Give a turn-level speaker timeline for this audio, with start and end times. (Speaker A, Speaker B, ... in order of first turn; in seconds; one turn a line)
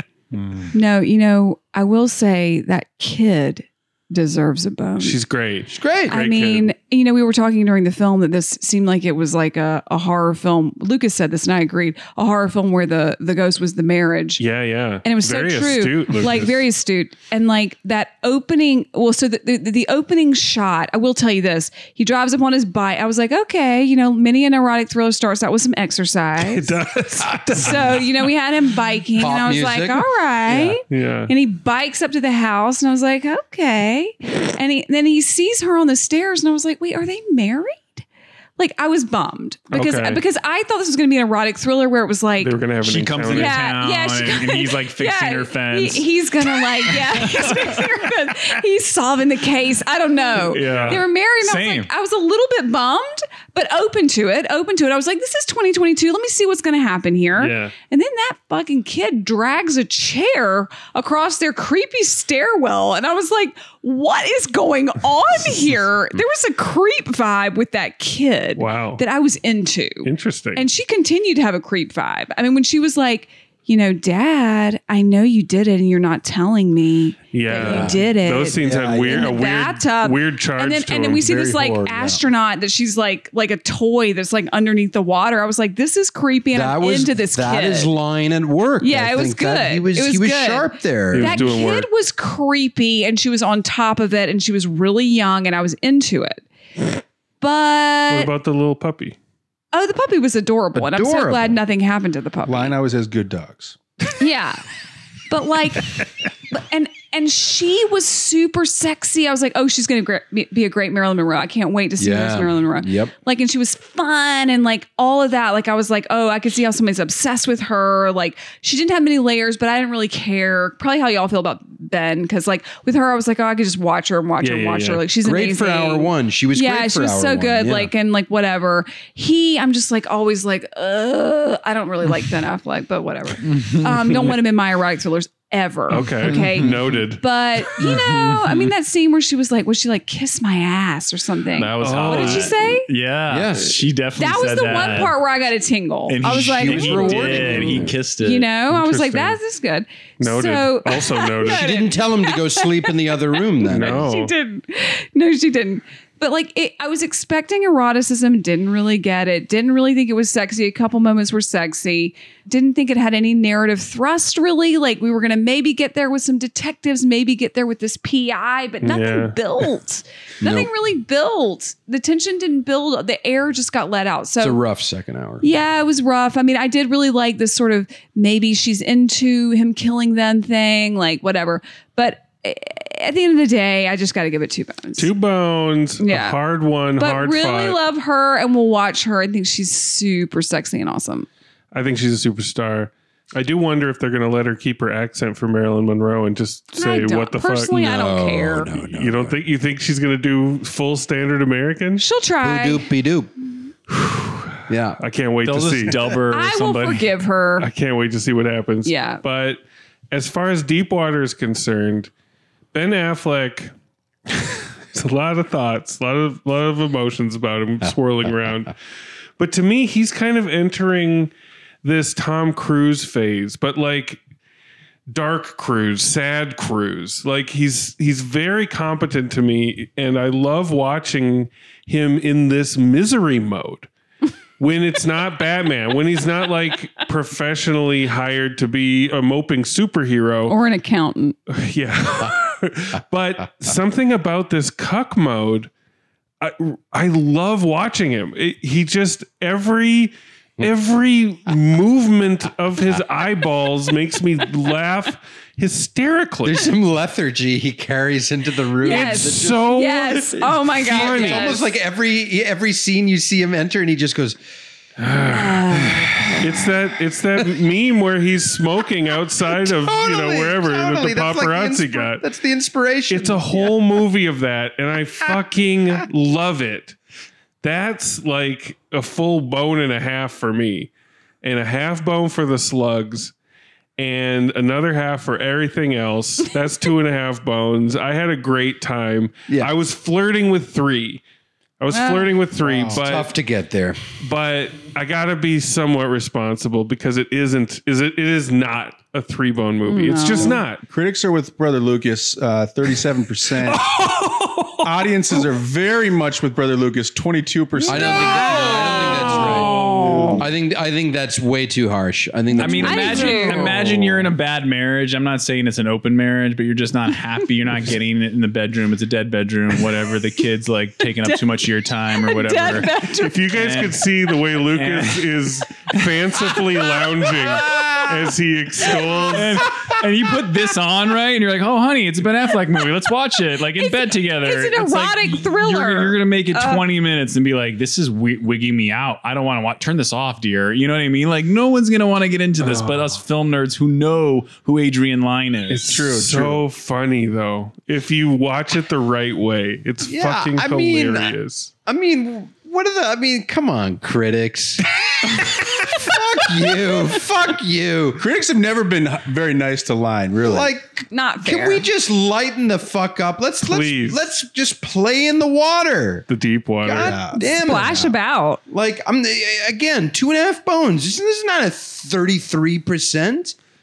Speaker A: 0.3-0.7
Speaker B: 0.7-5.2
Speaker C: 5.0-6.7
Speaker D: 5.7-6.2
Speaker B: 6.1-14.4
Speaker C: 14.4-16.6
Speaker B: 15.0-26.8
Speaker C: 26.4-28.1
Speaker B: 27.5-38.0
Speaker D: 29.2-30.1
Speaker C: 30.5-31.3
Speaker B: 38.6-42.6
Speaker C: 39.7-40.2
Speaker C: 42.4-43.6
Speaker A: 42.8-48.5
Speaker B: 43.3-87.9
Speaker A: 50.5-51.9
Speaker C: 50.6-51.0
Speaker C: 57.4-57.7
Speaker C: 68.6-69.0
Speaker C: 70.0-70.6
Speaker C: 77.3-81.3
Speaker D: 77.5-78.0
Speaker E: 78.7-79.3
Speaker D: 78.8-79.0
Speaker E: 81.1-82.2
Speaker D: 86.5-91.4
Speaker B: 88.8-96.4
Speaker C: 91.1-91.9
Speaker B: 97.4-98.3
Speaker C: 98.1-99.2
Speaker B: 99.7-102.7
Speaker D: 100.8-101.6
Speaker E: 102.5-103.8
Speaker B: 104.2-104.6
Speaker B: 105.3-106.0
Speaker B: 106.5-142.9
Speaker D: 112.0-113.1
Speaker C: 124.4-125.0
Speaker D: 125.2-127.9
Speaker A: 133.4-134.4
Speaker C: 135.9-137.2
Speaker A: 136.2-137.0
Speaker A: 137.7-138.7
Speaker A: 141.6-145.2
Speaker C: 141.8-142.5
Speaker D: 143.3-143.8
Speaker B: 144.2-152.9
Speaker A: 146.1-148.5
Speaker D: 146.2-148.0
Speaker C: 148.7-149.4
Speaker C: 150.2-151.7
Speaker D: 151.5-154.0
Speaker B: 153.5-174.6
Speaker C: 153.7-154.3
Speaker C: 168.8-169.7
Speaker D: 170.4-170.7
Speaker D: 174.4-175.5
Speaker B: 175.4-185.1
Speaker C: 185.0-187.8
Speaker B: 186.0-186.4
Speaker B: 187.0-191.3
Speaker C: 191.7-197.7
Speaker B: 196.7-198.8
Speaker D: 197.7-199.4
Speaker C: 198.9-202.0
Speaker B: 202.0-202.9
Speaker D: 202.4-203.3
Speaker C: 203.9-206.0
Speaker D: 204.7-205.0
Speaker A: 205.4-207.1
Speaker B: 206.3-207.7
Speaker C: 207.6-212.1
Speaker B: 208.8-209.2
Speaker C: 212.7-213.7
Speaker C: 214.9-218.8
Speaker C: 219.4-221.3
Speaker C: 221.8-224.2
Speaker C: 225.1-233.9
Speaker C: 234.6-240.6
Speaker B: 240.5-241.4
Speaker C: 241.5-245.7
Speaker C: 246.4-256.7
Speaker D: 256.4-259.9
Speaker B: 258.8-261.6
Speaker C: 258.8-261.6
Speaker D: 260.7-264.4
Speaker C: 265.0-272.2
Speaker B: 265.1-266.5
Speaker D: 269.6-273.8
Speaker C: 273.1-277.0
Speaker C: 277.6-280.9
Speaker C: 281.4-283.3
Speaker C: 284.0-291.2
Speaker C: 291.8-293.3
Speaker B: 291.9-292.3
Speaker E: 292.6-293.0
Speaker D: 292.9-294.0
Speaker C: 294.2-300.8
Speaker B: 299.9-300.6
Speaker E: 300.4-303.9
Speaker A: 303.9-304.9
Speaker E: 304.8-308.2
Speaker B: 307.8-309.8
Speaker D: 307.9-309.7
Speaker A: 308.5-310.4
Speaker E: 309.9-310.5
Speaker D: 310.4-313.7
Speaker A: 312.6-324.1
Speaker B: 312.6-313.8
Speaker B: 322.1-323.4
Speaker C: 323.1-329.7
Speaker A: 324.7-326.6
Speaker B: 327.4-328.1
Speaker B: 328.9-329.2
Speaker A: 329.3-346.0
Speaker B: 333.8-336.9
Speaker C: 342.6-343.2
Speaker C: 345.7-351.7
Speaker E: 345.9-346.6
Speaker D: 350.1-351.3
Speaker D: 351.9-358.2
Speaker E: 358.2-360.7
Speaker D: 360.4-366.3
Speaker B: 361.1-361.9
Speaker C: 363.6-364.3
Speaker C: 366.3-367.2
Speaker D: 366.9-368.1
Speaker E: 366.9-368.1
Speaker B: 367.3-368.6
Speaker D: 368.7-373.6